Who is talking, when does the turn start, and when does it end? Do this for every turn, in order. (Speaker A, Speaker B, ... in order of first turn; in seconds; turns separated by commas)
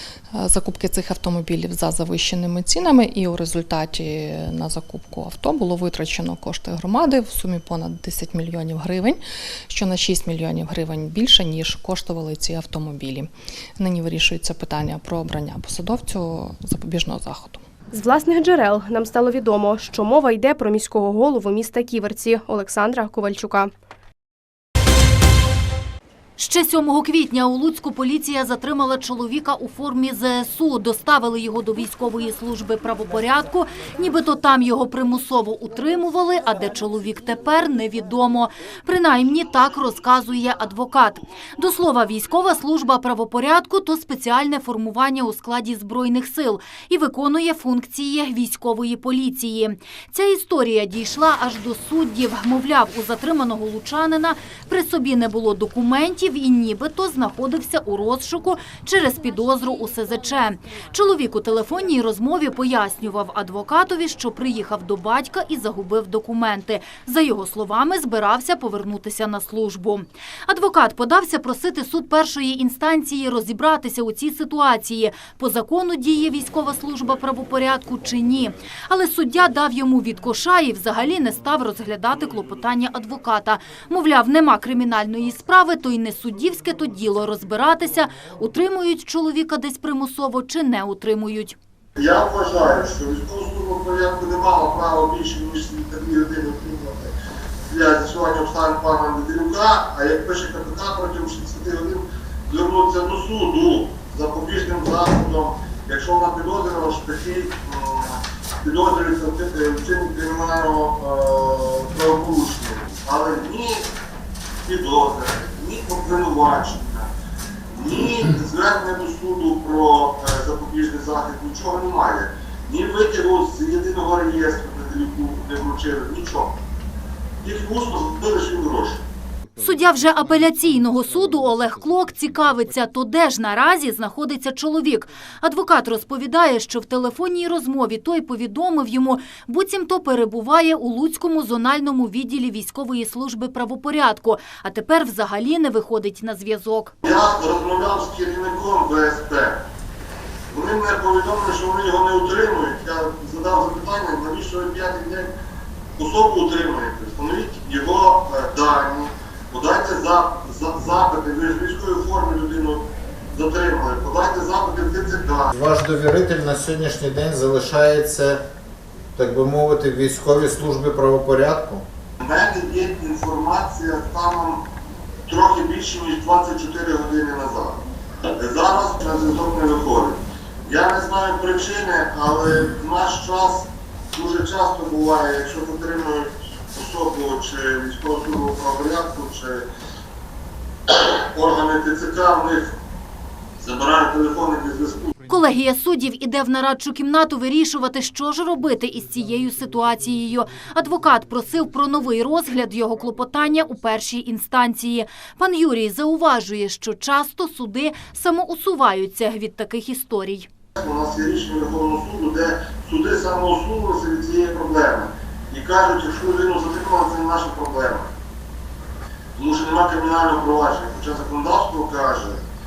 Speaker A: 0.3-17.6, Speaker B: 17.9-23.7, Speaker C: 26.4-91.6, Speaker D: 92.0-97.1, Speaker D: 97.7-113.8, Speaker D: 114.7-117.1, Speaker D: 117.7-126.5, Speaker D: 127.4-129.0, Speaker C: 129.6-146.9, Speaker D: 147.0-149.6, Speaker D: 150.5-155.3, Speaker D: 156.0-165.5, Speaker E: 165.6-168.4, Speaker E: 169.2-171.8, Speaker D: 172.2-174.6, Speaker D: 175.3-177.8, Speaker D: 178.4-189.6, Speaker D: 190.9-192.7, Speaker D: 193.6-195.1, Speaker C: 195.3-210.5, Speaker D: 210.8-218.1, Speaker D: 219.4-222.4